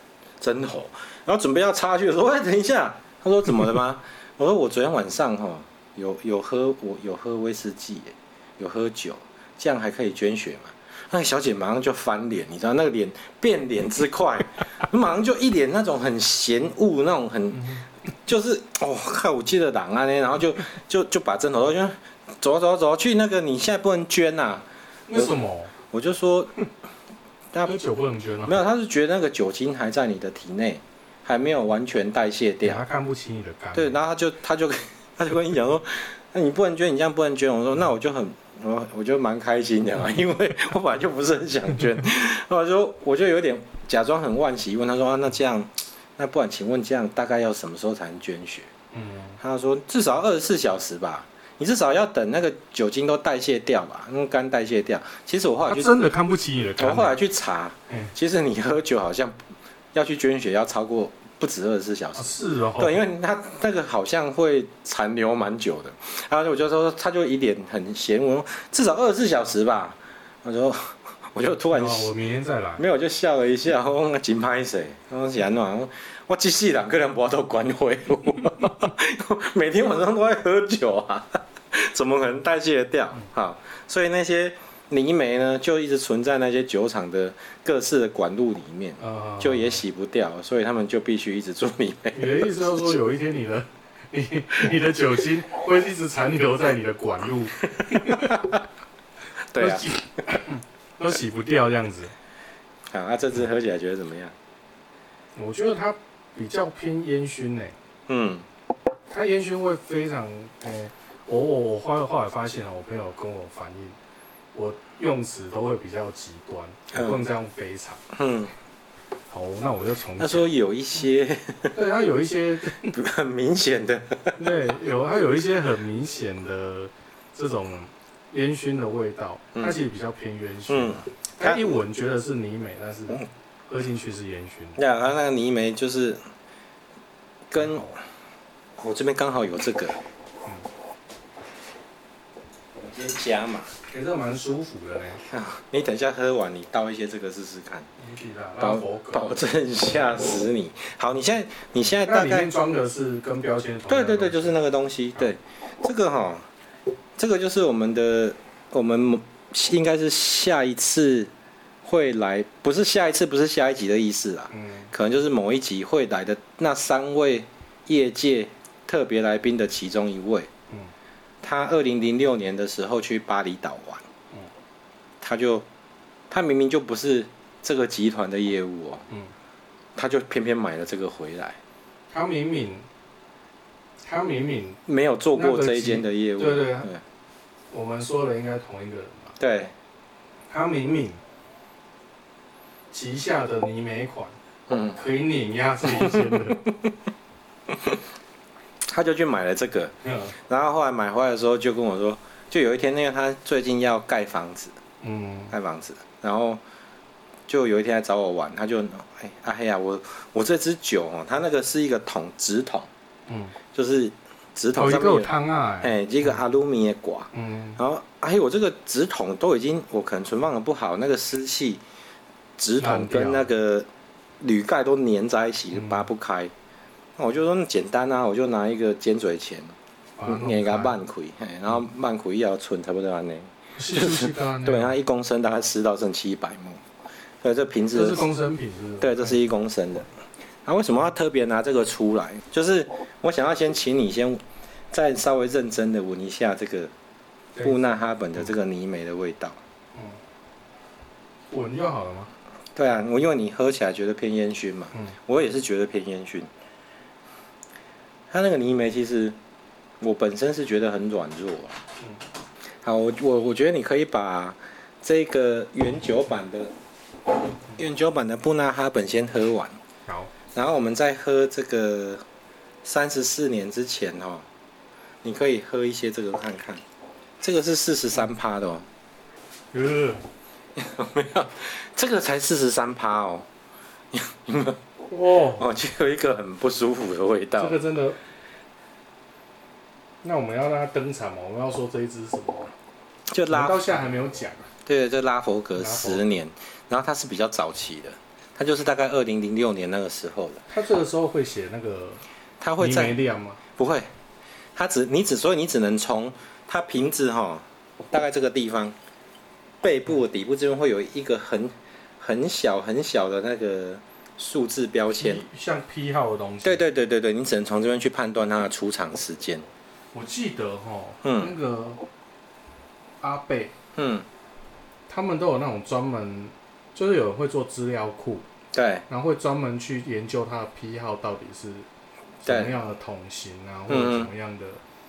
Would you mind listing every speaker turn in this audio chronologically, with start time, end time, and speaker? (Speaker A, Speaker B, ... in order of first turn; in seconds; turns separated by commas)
Speaker A: 0.4-25.3, Speaker B: 17.5-17.8, Speaker B: 25.1-25.7, Speaker A: 25.9-26.6, Speaker B: 27.6-28.6, Speaker A: 28.4-32.8, Speaker B: 32.6-34.0, Speaker A: 33.7-48.7, Speaker B: 48.9-49.4, Speaker A: 49.4-56.0, Speaker B: 55.6-57.2, Speaker A: 56.8-59.4, Speaker A: 59.9-72.1, Speaker B: 62.1-63.0, Speaker B: 71.7-72.8, Speaker A: 72.8-92.9, Speaker B: 89.0-89.8, Speaker B: 92.1-98.5, Speaker A: 97.9-98.6, Speaker A: 99.5-99.9, Speaker B: 99.6-102.1, Speaker A: 102.9-104.3, Speaker B: 105.4-107.7, Speaker A: 108.1-108.5, Speaker B: 109.1-114.0, Speaker B: 114.5-118.0, Speaker A: 116.9-117.2, Speaker A: 118.1-118.5, Speaker B: 119.3-120.5, Speaker A: 120.2-121.8, Speaker B: 121.7-122.9, Speaker A: 122.8-124.5, Speaker B: 124.4-134.8, Speaker A: 130.7-131.8, Speaker A: 134.8-136.2, Speaker A: 137.5-138.0, Speaker A: 138.8-140.0, Speaker A: 142.8-143.7, Speaker B: 143.9-145.2, Speaker A: 145.3-147.9, Speaker B: 148.0-149.3, Speaker A: 148.6-152.5, Speaker B: 152.1-154.6, Speaker A: 153.9-156.5, Speaker A: 157.2-161.3, Speaker A: 161.8-170.5, Speaker B: 164.5-164.9, Speaker A: 171.4-174.1, Speaker A: 175.2-175.7, Speaker A: 176.3-179.1, Speaker A: 179.9-181.6, Speaker B: 182.1-182.9, Speaker B: 184.0-184.8, Speaker A: 184.9-187.0, Speaker B: 185.3-186.9, Speaker B: 187.7-189.4, Speaker A: 189.4-189.7, Speaker B: 190.5-191.2, Speaker B: 192.9-194.3, Speaker A: 194.7-195.0, Speaker B: 194.9-196.7, Speaker A: 195.9-196.9, Speaker A: 197.7-198.0, Speaker A: 198.9-204.8, Speaker B: 200.0-200.4, Speaker B: 205.0-205.6, Speaker A: 205.5-206.6, Speaker A: 207.5-212.9, Speaker B: 213.3-213.6, Speaker A: 213.7-221.8, Speaker B: 214.8-216.0, Speaker B: 217.3-217.8, Speaker A: 222.6-223.9, Speaker B: 222.8-223.5, Speaker A: 224.4-226.5, Speaker B: 225.7-226.1, Speaker A: 227.2-229.7, Speaker B: 230.2-230.9, Speaker A: 230.3-236.8, Speaker B: 233.8-234.9, Speaker A: 237.4-238.2, Speaker B: 237.9-239.4, Speaker A: 239.0-240.1, Speaker A: 240.6-246.9, Speaker A: 247.6-249.6, Speaker B: 251.5-252.3, Speaker A: 252.8-256.5, Speaker A: 258.3-259.4, Speaker A: 260.0-261.8, Speaker A: 262.8-266.7, Speaker A: 267.8-269.8, Speaker B: 270.1-270.3, Speaker A: 270.5-272.2, Speaker A: 272.8-274.4, Speaker A: 275.2-276.8, Speaker A: 277.4-278.9, Speaker B: 279.7-280.2, Speaker A: 280.8-283.5, Speaker A: 284.1-284.8, Speaker B: 285.1-285.7, Speaker A: 285.6-287.8, Speaker B: 287.6-288.2, Speaker B: 290.2-292.7, Speaker A: 293.3-293.8, Speaker B: 293.5-294.7, Speaker A: 294.9-300.6, Speaker B: 295.8-296.2, Speaker B: 300.7-302.2, Speaker A: 302.6-303.2, Speaker B: 302.8-303.6, Speaker A: 303.8-304.1, Speaker A: 304.7-308.9, Speaker A: 309.8-315.4, Speaker B: 315.1-316.8, Speaker A: 316.6-319.6, Speaker B: 320.1-322.0, Speaker A: 321.2-321.5, Speaker B: 323.2-323.7, Speaker A: 323.9-324.3, Speaker B: 325.1-328.4, Speaker A: 328.7-329.1, Speaker B: 329.1-331.9, Speaker B: 332.4-334.8, Speaker A: 332.4-332.7, Speaker A: 333.9-334.3